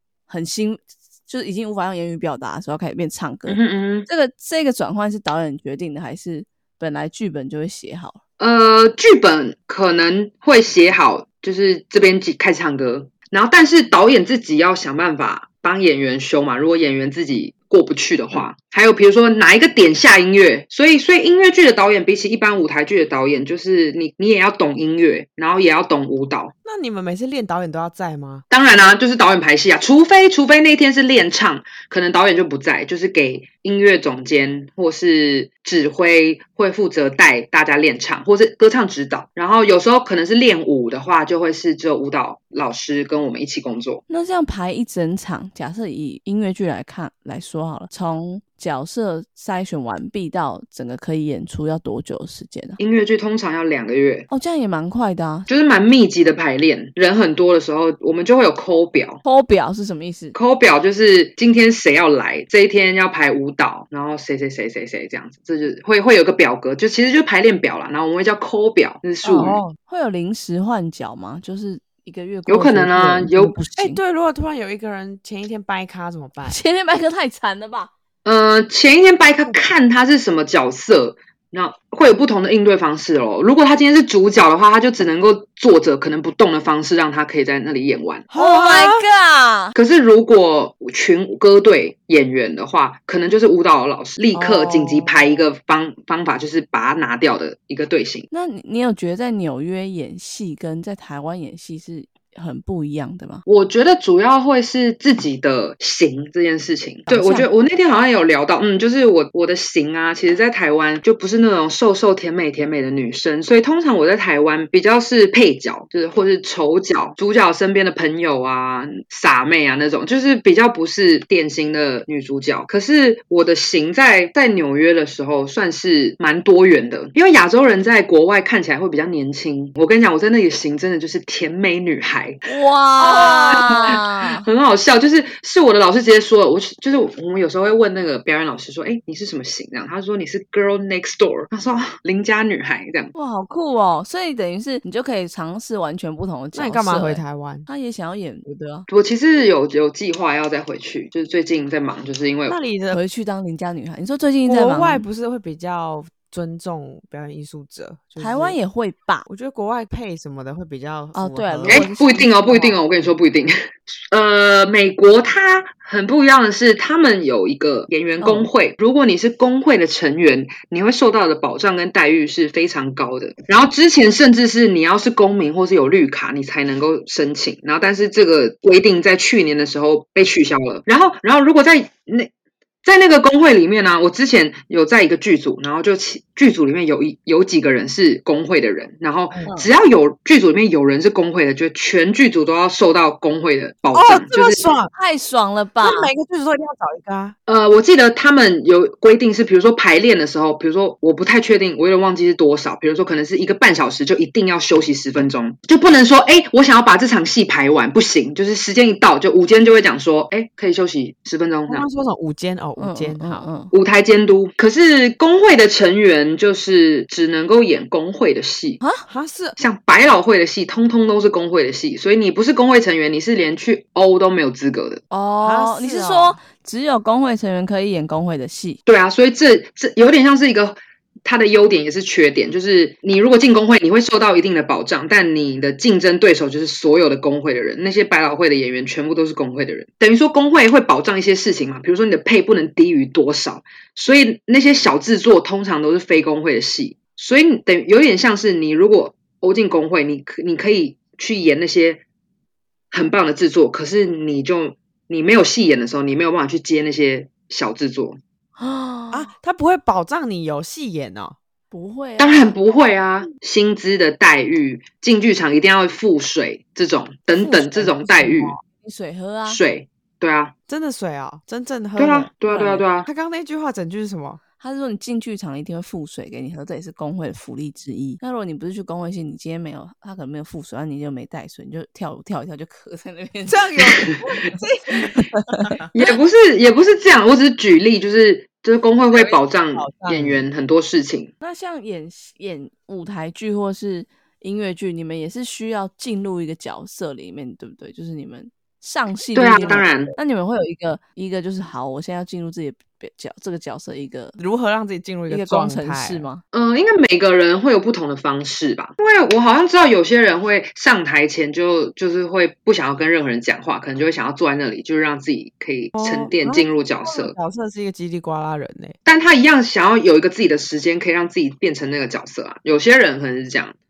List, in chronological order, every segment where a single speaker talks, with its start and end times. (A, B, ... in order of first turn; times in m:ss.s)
0:00.3-0:08.2 A
0:03.5-0:04.1 B
0:08.4-0:26.5 B
0:26.6-0:28.4 C
0:28.5-0:44.0 B
0:44.1-0:52.8 A
0:52.8-0:54.3 B
0:54.3-0:55.5 A
0:55.5-0:59.2 B
0:59.2-1:00.4 A
1:00.3-1:09.6 B
1:09.2-1:14.0 A
1:09.3-1:09.8 C
1:12.5-1:13.6 B
1:13.8-1:16.6 C
1:16.4-1:17.9 A
1:18.2-1:28.3 B
1:28.3-1:29.0 C
1:28.3-1:29.7 A
1:29.7-1:38.3 B
1:34.3-1:35.4 C
1:38.3-1:43.4 A
1:43.4-2:12.4 B
1:47.1-1:47.5 A
2:12.5-2:14.4 A
2:13.0-2:23.1 B
2:23.1-2:28.9 A
2:26.5-2:27.7 C
2:28.9-2:32.6 B
2:32.5-2:33.0 C
2:32.9-2:35.0 A
2:34.4-2:38.6 C
2:38.2-2:39.2 A
2:39.2-2:41.9 C
2:41.1-2:42.8 A
2:41.7-2:43.5 B
2:44.1-3:02.3 B
2:48.2-2:48.5 A
3:02.8-3:14.7 B
3:13.9-3:14.9 C
3:14.9-3:16.1 A
3:15.8-3:17.3 C
3:17.5-3:31.9 B
3:31.7-3:33.5 C
3:32.8-3:33.7 A
3:33.7-3:38.8 B
3:38.8-3:39.0 A
3:39.1-3:39.6 C
3:39.6-3:45.0 B
3:45.1-3:48.8 A
3:45.4-3:46.4 C
3:48.8-4:12.0 B
4:12.9-4:18.2 B
4:18.6-4:19.3 A
4:19.1-4:21.4 C
4:21.7-4:22.5 A
4:22.2-4:28.5 B
4:27.3-4:29.6 A
4:29.4-4:30.5 B
4:30.7-4:32.3 C
4:32.0-4:33.1 B
4:32.5-4:32.8 A
4:33.0-4:34.4 C
4:34.6-4:43.7 A
4:43.5-4:45.9 C
4:45.1-4:46.1 A
4:45.9-4:51.3 B
4:49.1-4:50.4 C
4:51.4-5:04.4 A
4:59.3-5:00.2 B
5:04.4-5:06.2 C
5:05.3-5:06.4 A
5:06.5-5:17.3 B
5:15.9-5:19.0 C
5:19.0-5:23.8 B